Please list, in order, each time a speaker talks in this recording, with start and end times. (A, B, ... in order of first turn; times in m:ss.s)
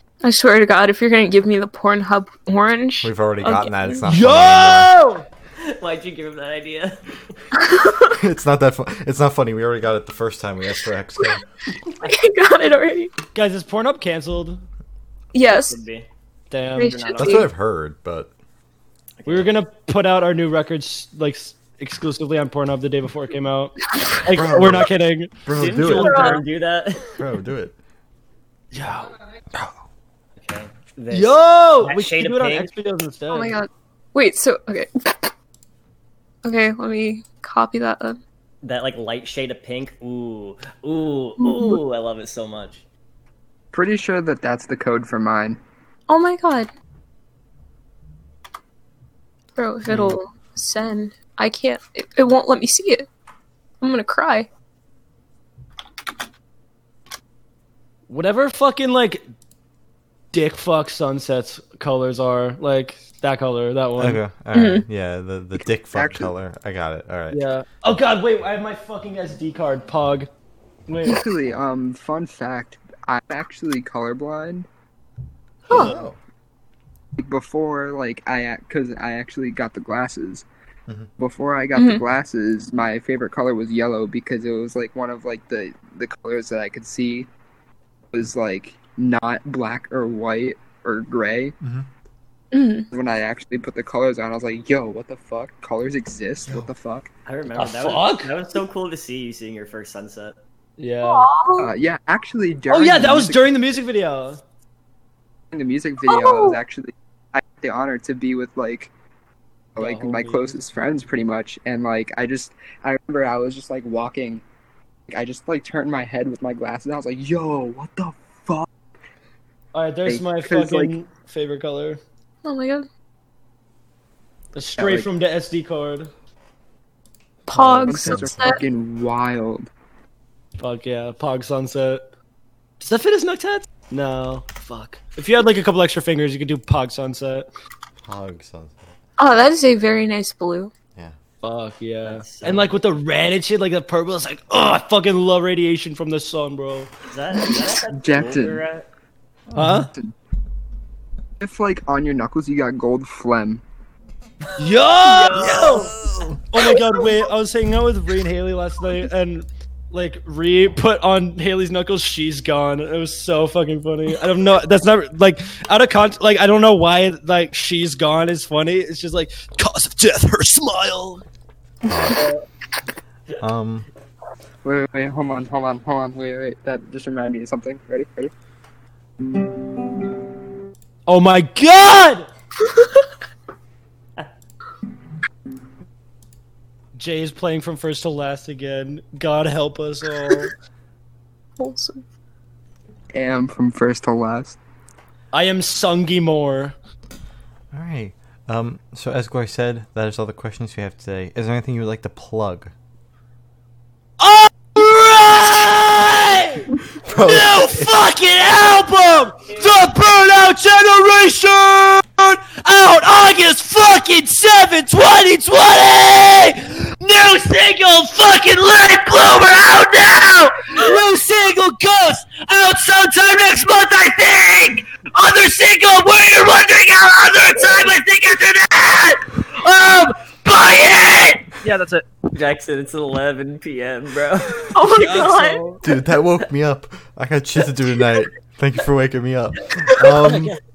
0:00.2-0:04.1 A
0:03.0-0:04.9 B
0:04.1-0:05.3 C
0:05.6-0:07.0 D
0:07.6-0:08.2 A
0:08.1-0:11.4 B
0:12.0-0:13.1 A
0:13.3-0:14.6 C
0:15.3-0:15.8 A
0:15.4-0:16.1 D
0:16.5-0:17.3 C
0:16.8-0:17.5 A
0:17.0-0:17.3 D
0:17.2-0:18.3 B
0:19.2-0:19.6 D
0:19.3-0:26.4 C
0:24.3-0:24.9 B
0:25.4-0:26.4 B
0:25.5-0:27.1 D
0:26.0-0:26.4 A
0:27.1-0:27.8 B
0:28.7-0:29.1 C
0:30.4-0:32.7 D
0:31.1-0:33.6 C
0:33.3-0:35.3 A
0:36.4-0:38.2 A
0:38.6-0:42.8 D
0:41.4-0:41.8 A
0:43.7-0:45.6 E
0:46.1-0:46.7 A
0:49.6-0:53.1 A
0:53.8-0:54.5 A
0:58.1-0:59.2 C
1:00.3-1:04.2 C
1:04.0-1:07.4 B
1:04.5-1:04.8 A
1:05.9-1:06.3 E
1:07.3-1:10.3 C
1:10.9-1:11.2 C
1:11.0-1:14.7 E
1:15.7-1:16.0 C
1:15.8-1:16.2 B
1:17.2-1:20.5 E
1:21.2-1:27.3 E
1:21.8-1:22.0 A
1:28.1-1:31.6 E
1:31.6-1:31.9 B
1:32.5-1:32.9 A
1:32.9-1:37.1 E
1:37.3-1:40.4 D
1:37.5-1:38.4 C
1:40.8-1:41.3 C
1:41.0-1:41.7 A
1:41.6-1:43.5 E
1:42.7-1:44.4 C
1:45.5-1:48.9 E
1:46.0-1:46.6 A
1:49.8-1:54.4 E
1:49.8-1:50.6 C
1:55.1-1:58.7 E
1:59.7-2:02.0 C
2:00.1-2:01.0 E
2:02.4-2:02.9 A
2:04.5-2:06.1 C
2:04.8-2:05.1 E
2:07.5-2:08.6 A
2:07.6-2:08.1 C
2:07.8-2:09.7 E
2:08.0-2:08.6 B
2:10.6-2:12.0 C
2:12.8-2:17.5 C
2:18.0-2:19.0 B
2:19.2-2:20.7 A
2:21.4-2:26.9 C
2:22.0-2:22.7 D
2:27.0-2:28.9 D
2:27.9-2:28.6 E
2:29.5-2:29.9 B
2:29.6-2:29.9 C
2:31.4-2:33.6 E
2:34.6-2:51.2 C
2:35.0-2:36.0 D
2:51.8-2:52.3 B
2:52.2-2:52.4 C
2:53.4-2:53.9 B
2:54.6-2:58.3 E
3:01.1-3:02.3 C
3:02.6-3:03.1 A
3:07.0-3:10.5 C
3:11.6-3:12.0 A
3:13.1-3:14.6 E
3:15.3-3:16.8 C
3:17.7-3:22.7 B
3:24.2-3:52.0 C
3:27.0-3:27.9 B
3:47.6-3:47.9 D
3:52.3-3:55.0 D
3:54.7-3:55.6 A
3:54.8-3:55.8 C
3:55.8-4:00.6 B
4:00.0-4:00.6 C
4:00.0-4:00.6 D